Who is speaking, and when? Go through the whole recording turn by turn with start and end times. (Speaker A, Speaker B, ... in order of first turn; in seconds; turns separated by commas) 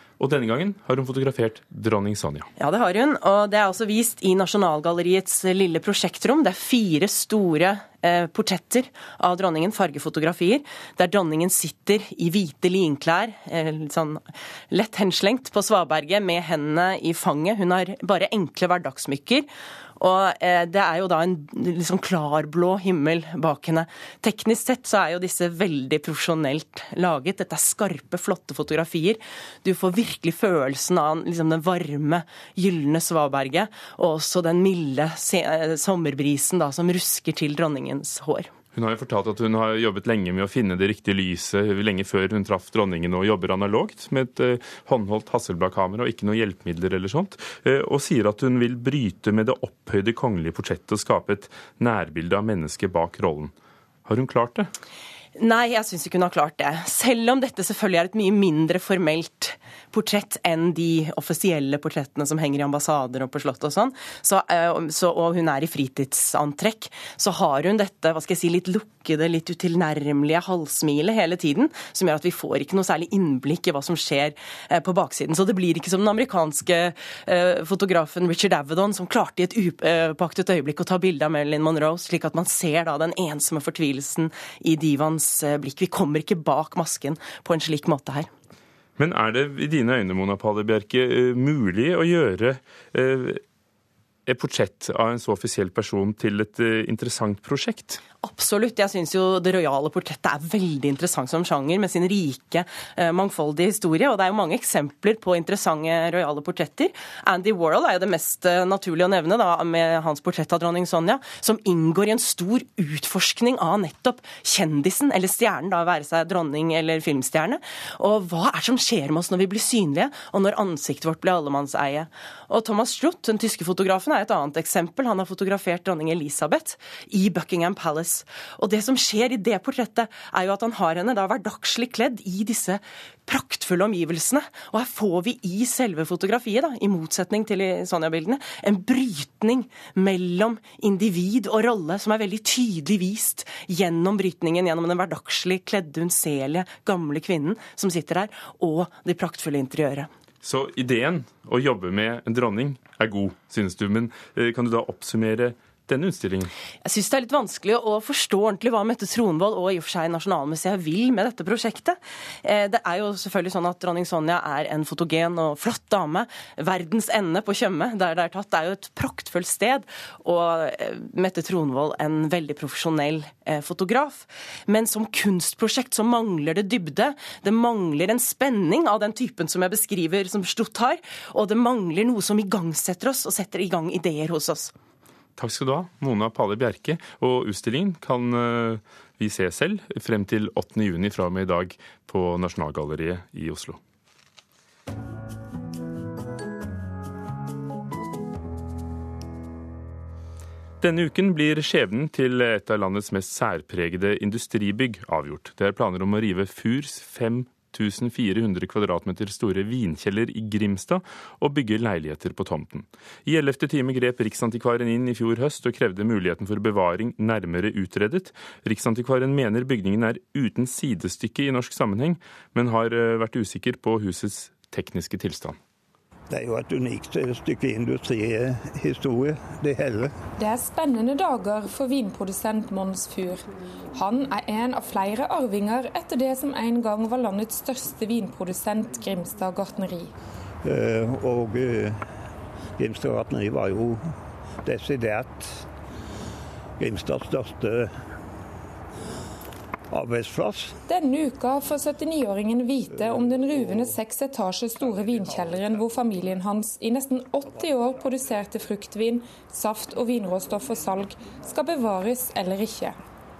Speaker A: 0.2-2.5, Speaker B: 2.6-38.5, Speaker A: 38.7-53.5, Speaker A: 54.0-54.7, Speaker B: 55.3-88.3, Speaker A: 89.0-93.4, Speaker A: 94.2-98.0, Speaker B: 98.2-150.1, Speaker A: 150.4-156.5, Speaker B: 156.8-184.7, Speaker A: 185.4-193.8, Speaker A: 200.8-225.6, Speaker C: 226.3-230.1, Speaker D: 230.4-240.1, Speaker C: 240.6-242.0, Speaker C: 242.8-244.1, Speaker C: 244.6-245.6, Speaker C: 246.8-247.9, Speaker C: 249.9-250.8, Speaker D: 250.9-263.0, Speaker C: 253.3-253.9, Speaker C: 254.9-255.7